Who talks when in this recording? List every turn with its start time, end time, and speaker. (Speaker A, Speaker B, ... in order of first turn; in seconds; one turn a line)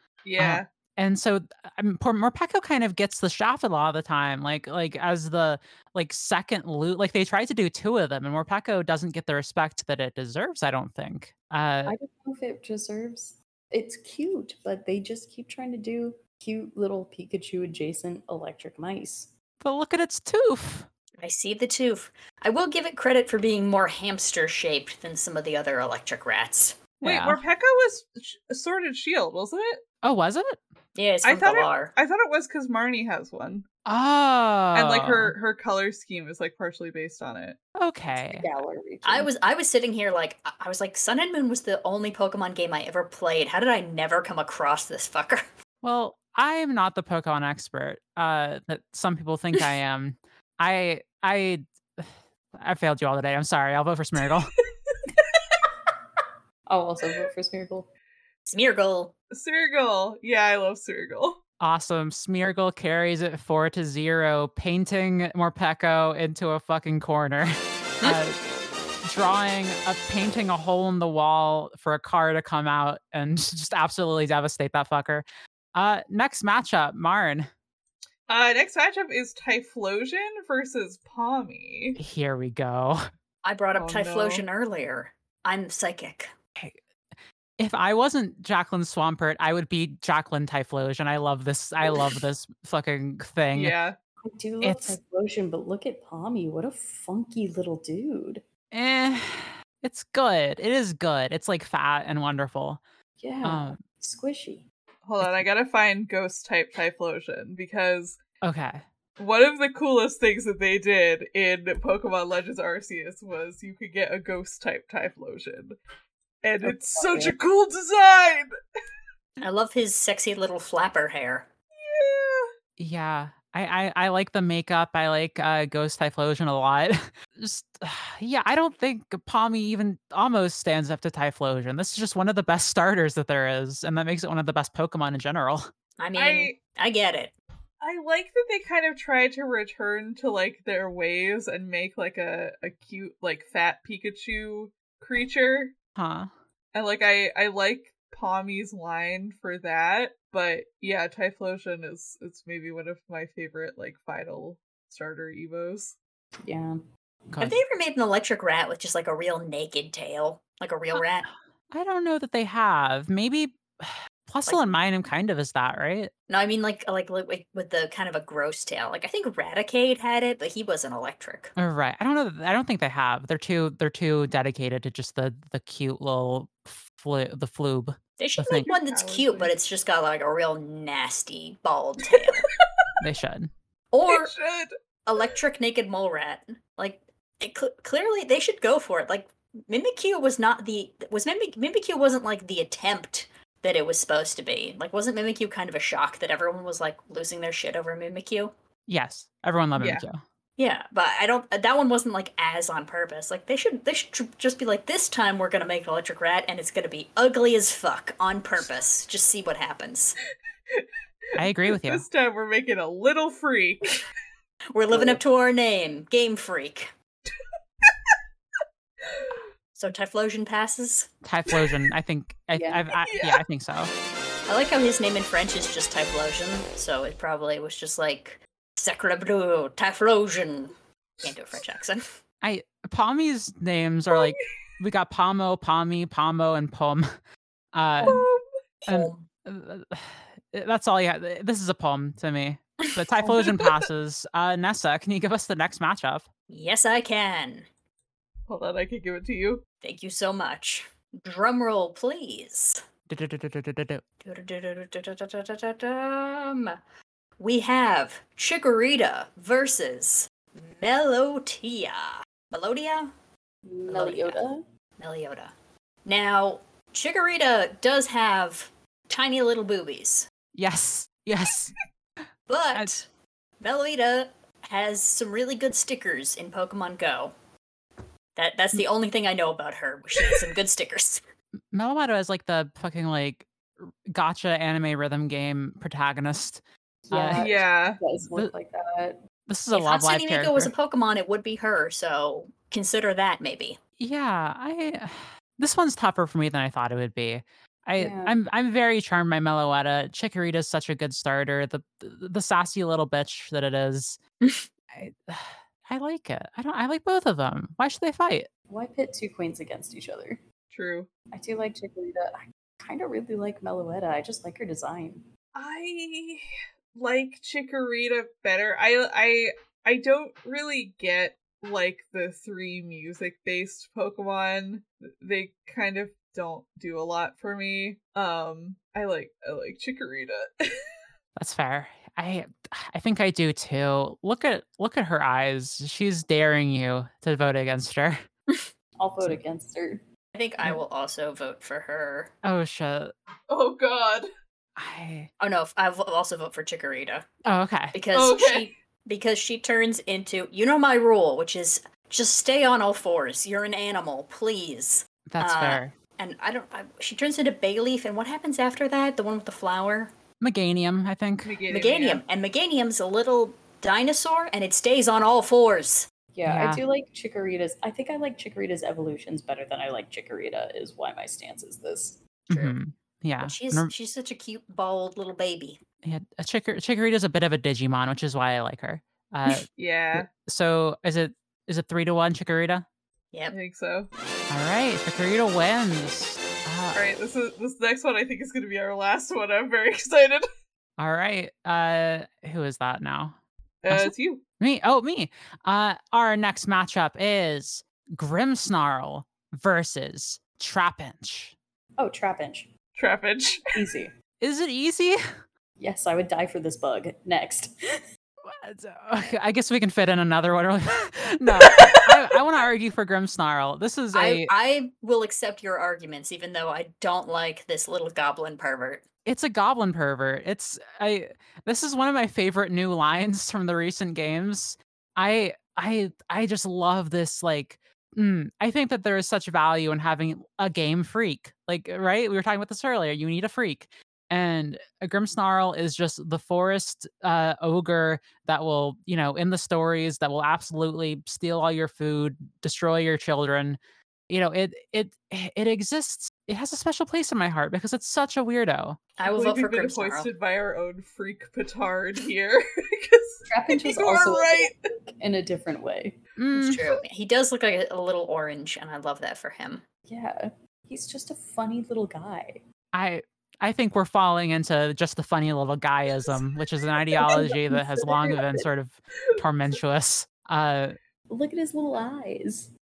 Speaker A: 0.2-0.7
Speaker B: 0.4-11.9
Speaker C: 11.9-19.3
Speaker B: 19.6-20.9
Speaker D: 21.2-26.8
Speaker B: 27.0-27.4
Speaker A: 27.0-29.8
Speaker B: 30.0-30.6
Speaker D: 30.9-31.9
Speaker A: 31.2-33.6
Speaker B: 33.9-35.3
Speaker A: 34.8-37.6
Speaker B: 37.8-38.5
Speaker C: 38.2-39.3
Speaker D: 39.0-45.4
Speaker B: 45.8-54.5
Speaker C: 56.7-57.9
Speaker D: 58.5-59.1
Speaker A: 59.3-61.4
Speaker B: 61.6-68.4
Speaker B: 69.0-77.5
Speaker A: 78.3-82.0
Speaker B: 82.0-83.1
Speaker D: 83.4-86.3
Speaker A: 83.8-84.5
Speaker B: 87.6-93.8
Speaker A: 93.5-94.0
Speaker C: 94.2-98.4
Speaker B: 94.6-95.0
Speaker B: 98.7-102.8
Speaker C: 103.2-104.7
Speaker B: 103.4-103.8
Speaker A: 105.1-108.2
Speaker B: 108.4-108.8
Speaker A: 109.2-115.8
Speaker A: 116.4-118.5
Speaker C: 116.6-117.4
Speaker D: 119.4-121.5
Speaker A: 121.7-122.5
Speaker B: 122.8-135.7
Speaker D: 136.0-137.3
Speaker A: 136.2-136.6
Speaker A: 137.8-145.7
Speaker B: 146.0-146.3
Speaker A: 146.7-156.0
Speaker C: 156.4-156.8
Speaker B: 157.3-157.6
Speaker D: 157.4-161.3
Speaker B: 161.7-166.1
Speaker D: 164.5-164.8
Speaker D: 166.3-171.5
Speaker B: 171.6-178.7
Speaker D: 178.2-182.5
Speaker A: 178.6-179.5
Speaker A: 182.2-182.5
Speaker B: 183.0-183.5
Speaker D: 183.9-184.3
Speaker A: 184.1-184.7
Speaker D: 185.1-198.5
Speaker B: 198.9-200.2
Speaker A: 199.8-200.1
Speaker D: 200.6-210.2
Speaker A: 210.7-214.0
Speaker B: 211.4-212.1
Speaker D: 214.7-216.9
Speaker C: 214.9-215.2
Speaker A: 217.8-218.1
Speaker A: 219.0-219.4
Speaker D: 219.8-221.1
Speaker B: 221.2-223.9
Speaker C: 222.6-222.8
Speaker A: 223.1-223.4
Speaker D: 224.5-232.0
Speaker B: 232.4-237.1
Speaker A: 234.1-234.4
Speaker B: 237.7-238.2
Speaker C: 238.0-238.2
Speaker A: 238.1-238.4
Speaker D: 238.8-239.3
Speaker B: 238.9-246.3
Speaker D: 246.5-247.7
Speaker A: 248.5-249.6
Speaker D: 249.8-252.8
Speaker B: 253.1-254.0
Speaker D: 254.2-256.8
Speaker D: 257.4-263.1
Speaker C: 263.6-264.6
Speaker D: 263.9-264.4
Speaker D: 265.0-265.5
Speaker D: 266.1-270.3
Speaker B: 270.6-271.8
Speaker D: 272.5-273.1
Speaker D: 273.6-277.3
Speaker D: 278.4-281.2
Speaker B: 281.7-286.6
Speaker C: 287.1-289.2
Speaker B: 287.1-287.5
Speaker A: 287.4-288.0
Speaker B: 289.5-290.7
Speaker D: 289.7-293.8
Speaker B: 294.0-304.2
Speaker C: 298.0-298.3
Speaker B: 304.9-308.5
Speaker C: 308.7-310.4
Speaker A: 310.7-311.1
Speaker C: 311.3-315.3
Speaker A: 315.6-330.8
Speaker B: 331.4-338.2
Speaker C: 339.0-340.0
Speaker D: 340.3-342.3
Speaker B: 342.4-343.1
Speaker A: 343.5-344.3
Speaker B: 344.8-345.3
Speaker D: 345.4-347.3
Speaker B: 347.4-347.9
Speaker D: 347.9-360.1
Speaker A: 348.1-348.7
Speaker B: 355.3-355.9
Speaker B: 360.4-361.6
Speaker A: 361.4-362.2
Speaker D: 361.7-366.1
Speaker C: 366.3-372.6
Speaker B: 366.5-366.8
Speaker B: 372.5-373.9
Speaker D: 373.4-375.8
Speaker B: 376.0-382.9
Speaker A: 379.8-380.3
Speaker A: 383.5-384.1
Speaker B: 384.5-387.1
Speaker A: 386.9-390.5
Speaker B: 391.0-393.4
Speaker A: 393.8-394.4
Speaker B: 393.9-401.6
Speaker C: 402.0-402.7
Speaker A: 403.0-403.7
Speaker C: 403.7-404.1
Speaker B: 404.4-405.2
Speaker C: 405.8-407.7
Speaker B: 408.5-414.5
Speaker A: 411.7-412.0
Speaker D: 414.1-419.0
Speaker B: 419.2-443.8
Speaker B: 444.3-449.0
Speaker D: 449.2-450.3
Speaker A: 449.2-454.8
Speaker C: 453.5-456.2
Speaker B: 456.4-456.8
Speaker D: 456.5-459.8
Speaker C: 460.1-462.6
Speaker B: 462.9-471.0
Speaker C: 467.2-468.7
Speaker C: 471.3-472.7